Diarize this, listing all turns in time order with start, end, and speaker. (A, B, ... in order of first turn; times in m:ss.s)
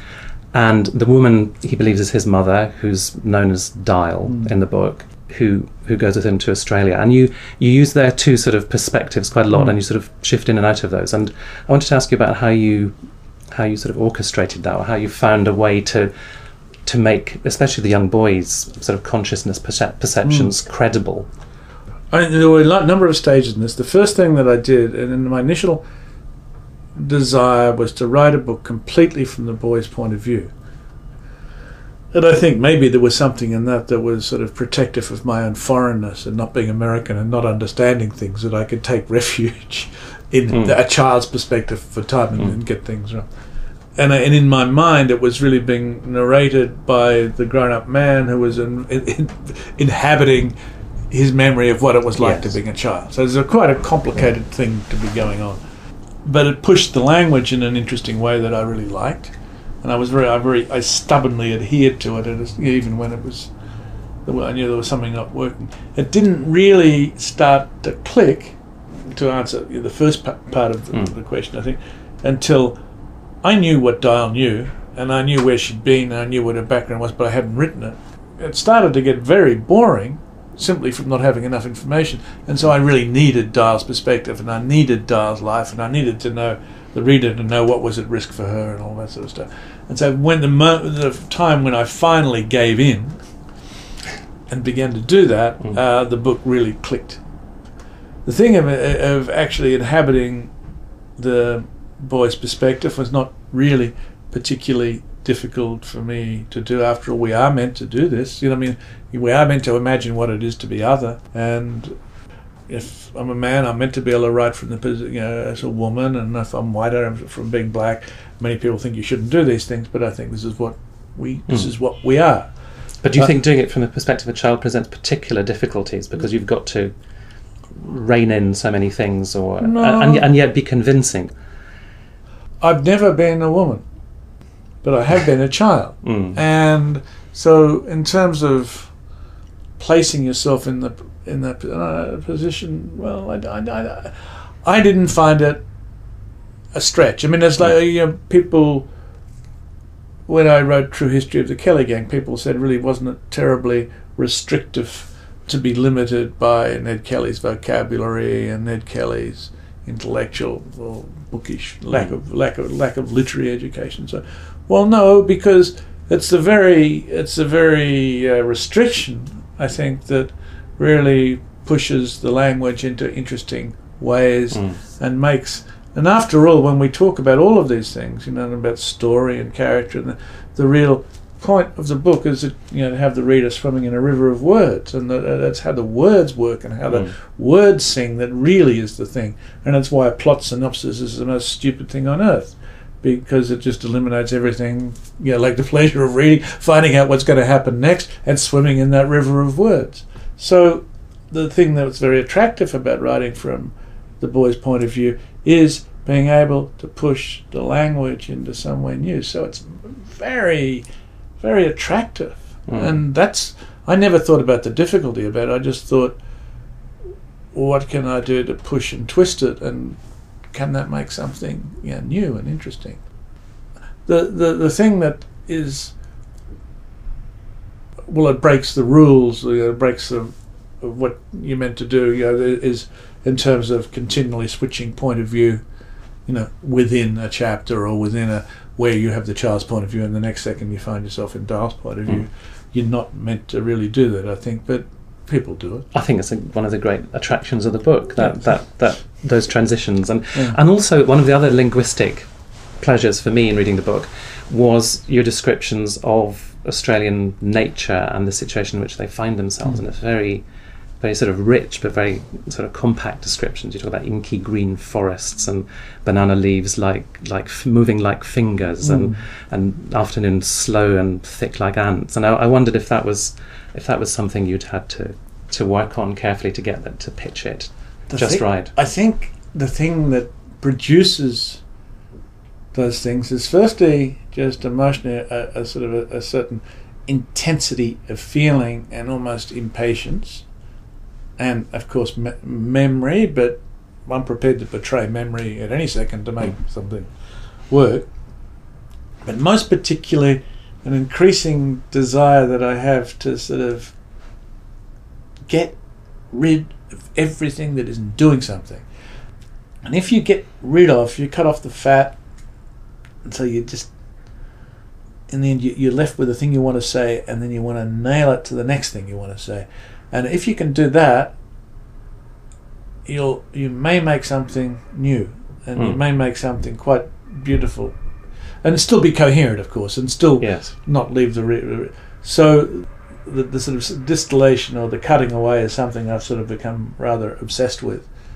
0:00.5-0:12.9 A
0:13.5-0:16.1 A
0:16.8-0:21.3 A
0:20.2-0:20.5 B
0:22.1-0:25.8 B
0:26.9-0:30.5 B
0:32.1-0:43.3 B
0:44.0-0:50.5 B
0:51.1-0:55.6 B
0:52.2-0:52.6 A
0:56.2-1:03.5 B
1:04.2-1:08.6 B
1:09.1-1:12.8 B
1:13.4-1:33.2 B
1:34.5-1:37.2 B
1:38.2-1:40.5 B
1:41.2-1:51.9 B
1:52.7-2:02.5 B
2:03.0-2:06.9 A
2:07.8-2:11.3 A
2:09.6-2:10.3 B
2:12.6-2:13.8 B
2:14.8-2:18.9 B
2:16.0-2:16.4 A
2:19.8-2:25.6 B
2:26.7-2:28.9 B
2:30.3-3:30.8 B
3:31.4-3:36.2 B
3:32.7-3:33.0 A
3:37.5-3:40.0 B
3:40.5-3:43.0 B
3:44.0-3:45.9 B
3:48.1-3:55.6 B
3:56.3-4:05.8 B
4:05.9-4:12.3 A
4:12.8-4:20.4 A
4:21.0-4:38.7 A
4:28.8-4:29.2 B
4:38.1-4:41.6 B
4:42.7-4:50.4 B
4:51.4-4:57.1 B
4:57.7-4:58.1 B
4:59.2-5:03.9 B
5:05.5-5:05.8 B
5:06.3-5:08.8 B
5:09.8-5:12.2 B
5:13.2-5:13.9 B
5:15.3-5:21.3 B
5:23.0-5:28.0 B
5:28.6-5:38.1 B
5:30.4-5:30.7 A